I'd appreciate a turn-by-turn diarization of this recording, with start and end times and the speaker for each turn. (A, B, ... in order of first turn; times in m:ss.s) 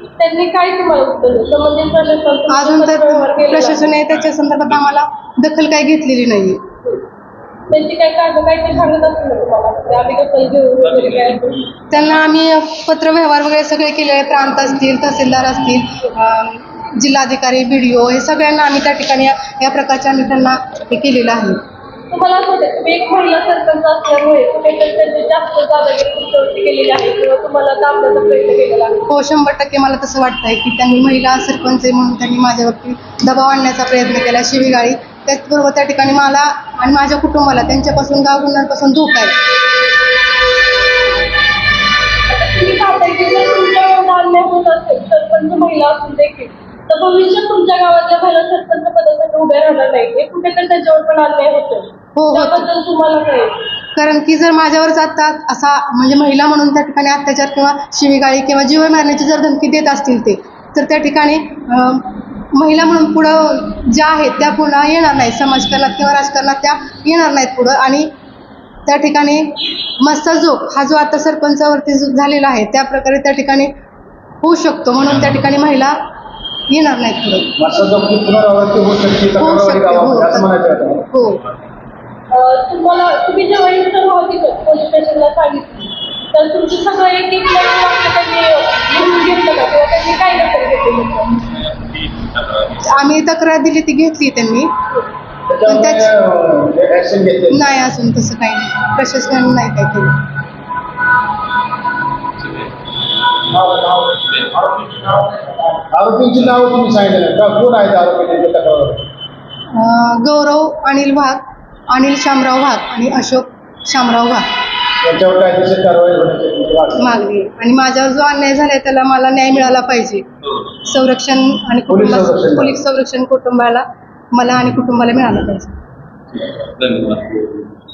0:00.2-0:04.0 A
0:02.5-0:06.6 B
0:07.7-0:11.6 A
0:10.9-0:11.6 C
0:11.9-0:21.6 B
0:22.1-0:29.1 A
0:29.1-0:39.4 B
0:42.3-0:53.6 A
0:52.2-0:52.7 B
0:54.0-1:08.1 B
1:08.9-1:13.7 B
1:14.4-1:16.0 B
1:16.7-1:17.5 B
1:17.6-1:21.1 D
1:19.4-1:20.5 B
1:21.1-1:21.4 B
1:22.3-1:31.5 A
1:31.5-1:33.0 C
1:32.8-1:34.7 B
1:35.5-1:37.6 D
1:35.7-1:36.1 B
1:37.5-1:40.2 B
1:42.4-1:42.7 C
1:43.5-1:49.0 D
1:44.3-1:45.2 C
1:49.7-1:54.5 B
1:55.0-1:57.1 D
1:57.0-2:00.3 B
2:00.8-2:05.7 B
2:01.9-2:02.7 D
2:06.4-2:07.5 C